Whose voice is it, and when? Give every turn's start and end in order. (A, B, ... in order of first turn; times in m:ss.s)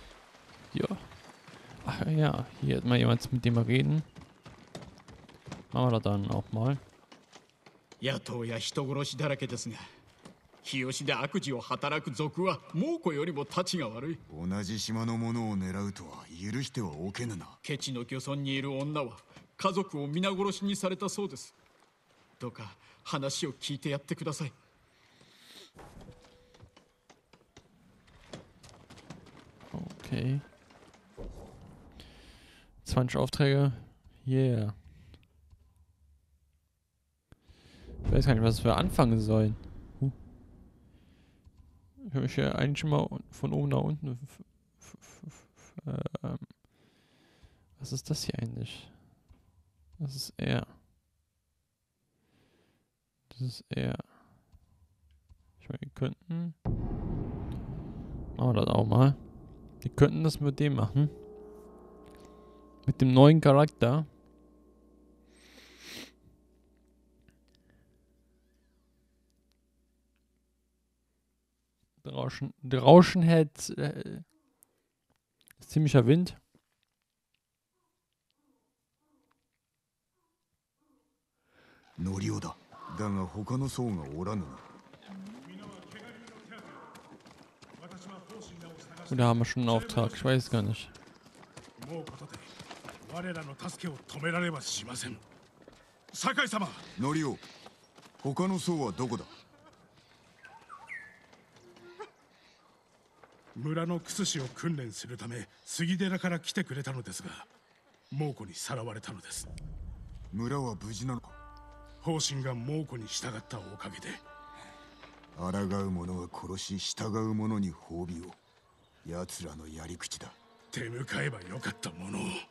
0:00.7-0:04.1 A
0:05.7-0:06.8 A
0:08.0-0:09.9 B
0:10.6-0:14.2 B
0:14.3-0:17.6 C
0:17.6-0:21.6 B
0:22.4-0:24.6 B
0:29.7-0:30.5 A
0:32.8-0:34.9 A
0:38.0-0:40.2 A
0:42.0-0:47.0 A
0:47.8-0:49.2 A
0:50.0-0:50.8 A
0:53.3-0:54.2 A
0:55.6-0:56.6 A
0:58.4-0:59.3 A
0:59.8-1:01.2 A
1:02.8-1:04.1 A
1:12.0-1:14.3 A
1:15.6-1:16.4 A
1:22.0-1:24.7 C
1:25.4-1:26.9 D
1:27.8-1:30.3 D
1:29.1-1:30.9 A
1:31.8-1:32.5 D
1:33.0-1:35.2 D
1:36.1-1:36.8 D
1:37.0-1:37.4 C
1:38.2-1:39.3 C
1:43.6-1:47.5 D
1:48.1-1:49.5 D
1:50.3-1:51.4 C
1:52.0-1:54.2 D
1:55.4-1:58.4 C
1:59.0-2:00.4 C
2:00.7-2:02.4 D